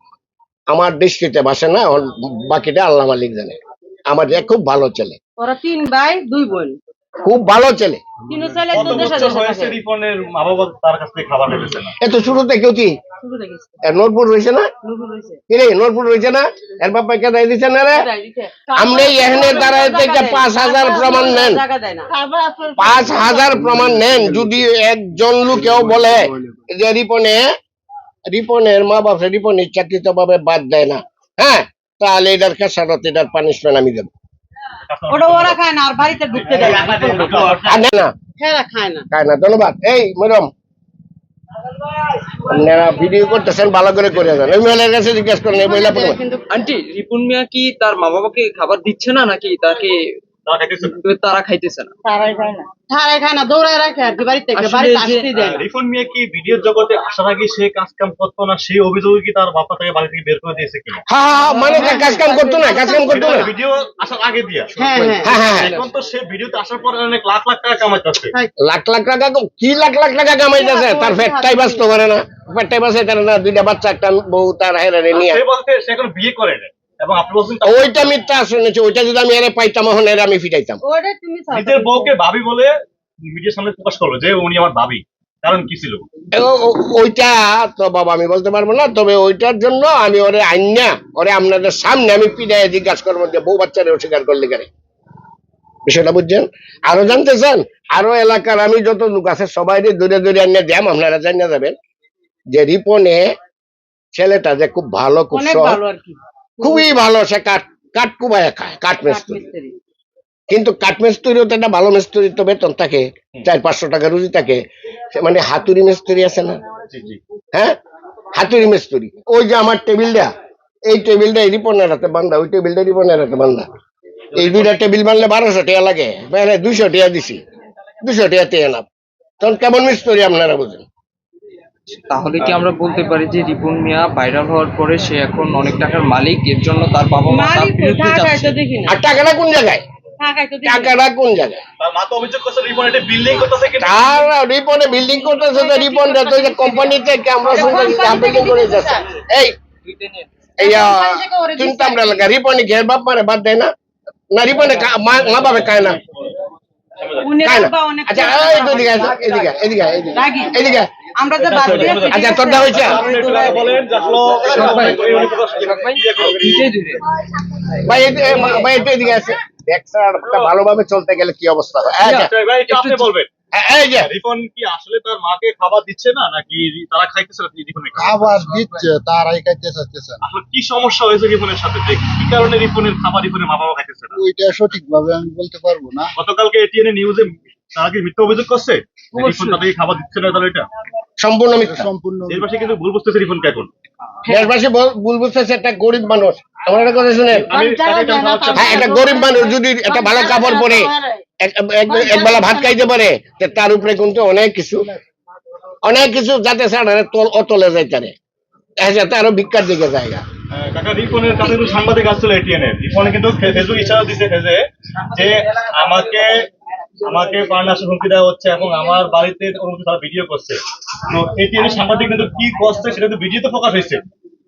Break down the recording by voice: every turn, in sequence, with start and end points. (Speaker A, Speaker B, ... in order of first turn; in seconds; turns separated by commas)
Speaker A: 0.7-3.6, Speaker A: 4.1-5.2, Speaker B: 5.4-6.8, Speaker A: 7.3-8.0, Speaker B: 8.3-9.8, Speaker C: 8.7-11.9, Speaker A: 12.0-12.9, Speaker B: 13.2-13.7, Speaker A: 13.8-14.7, Speaker B: 14.8-15.4, Speaker A: 15.5-18.1, Speaker B: 17.9-22.1, Speaker A: 18.8-21.6, Speaker A: 22.8-27.4, Speaker D: 23.0-24.7, Speaker D: 25.5-26.6, Speaker A: 28.3-34.1, Speaker C: 34.9-35.6, Speaker B: 35.1-37.4, Speaker C: 36.3-37.9, Speaker A: 37.6-38.1, Speaker B: 38.4-39.1, Speaker A: 39.1-40.5, Speaker A: 42.4-46.2, Speaker B: 45.5-46.5, Speaker E: 46.5-50.0, Speaker C: 50.5-51.0, Speaker E: 51.0-51.9, Speaker B: 52.3-55.6, Speaker E: 54.5-55.3, Speaker C: 55.4-61.0, Speaker A: 61.1-63.5, Speaker B: 61.5-63.5, Speaker C: 63.1-68.3, Speaker B: 64.8-65.4, Speaker E: 65.0-65.8, Speaker A: 65.2-65.7, Speaker A: 68.6-75.4, Speaker B: 70.5-71.9, Speaker C: 75.1-78.1, Speaker A: 77.6-80.8, Speaker B: 80.8-82.1, Speaker C: 81.5-82.7, Speaker C: 83.3-86.0, Speaker A: 86.3-94.7, Speaker A: 95.9-101.8, Speaker A: 102.5-103.3, Speaker A: 104.2-105.8, Speaker B: 105.3-106.8, Speaker A: 106.6-109.4, Speaker B: 109.0-109.8, Speaker A: 110.5-114.6, Speaker A: 115.2-116.6, Speaker C: 116.9-117.2, Speaker A: 118.3-120.3, Speaker A: 120.9-123.7, Speaker C: 124.3-124.8, Speaker A: 124.4-127.4, Speaker A: 128.0-128.9, Speaker A: 129.4-130.8, Speaker E: 131.9-138.6, Speaker B: 137.3-138.9, Speaker A: 138.9-139.8, Speaker B: 140.2-140.9, Speaker A: 140.7-141.6, Speaker C: 141.8-144.3, Speaker A: 143.8-149.6, Speaker B: 145.4-149.1, Speaker E: 149.8-150.3, Speaker B: 150.6-152.3, Speaker A: 150.6-153.7, Speaker A: 154.3-156.0, Speaker B: 157.2-159.5, Speaker A: 157.4-160.9, Speaker B: 160.1-160.7, Speaker B: 161.2-163.6, Speaker C: 161.4-166.7, Speaker A: 161.9-163.1, Speaker E: 162.8-163.7, Speaker E: 164.4-167.0, Speaker A: 167.8-172.3, Speaker E: 168.2-168.7, Speaker C: 170.3-170.5, Speaker C: 172.0-173.3, Speaker E: 172.0-173.1, Speaker A: 173.5-174.1, Speaker C: 173.9-178.5, Speaker D: 177.9-180.2, Speaker C: 180.2-184.2, Speaker D: 184.1-186.1, Speaker C: 186.2-190.7, Speaker B: 189.2-189.6, Speaker A: 191.2-191.9, Speaker D: 191.6-192.5, Speaker C: 192.3-193.7, Speaker A: 194.3-197.5, Speaker C: 197.3-199.1, Speaker B: 197.5-201.2, Speaker A: 198.5-204.9, Speaker B: 201.9-202.8, Speaker A: 205.8-208.2, Speaker A: 208.8-210.2, Speaker C: 210.5-216.4, Speaker C: 217.0-224.0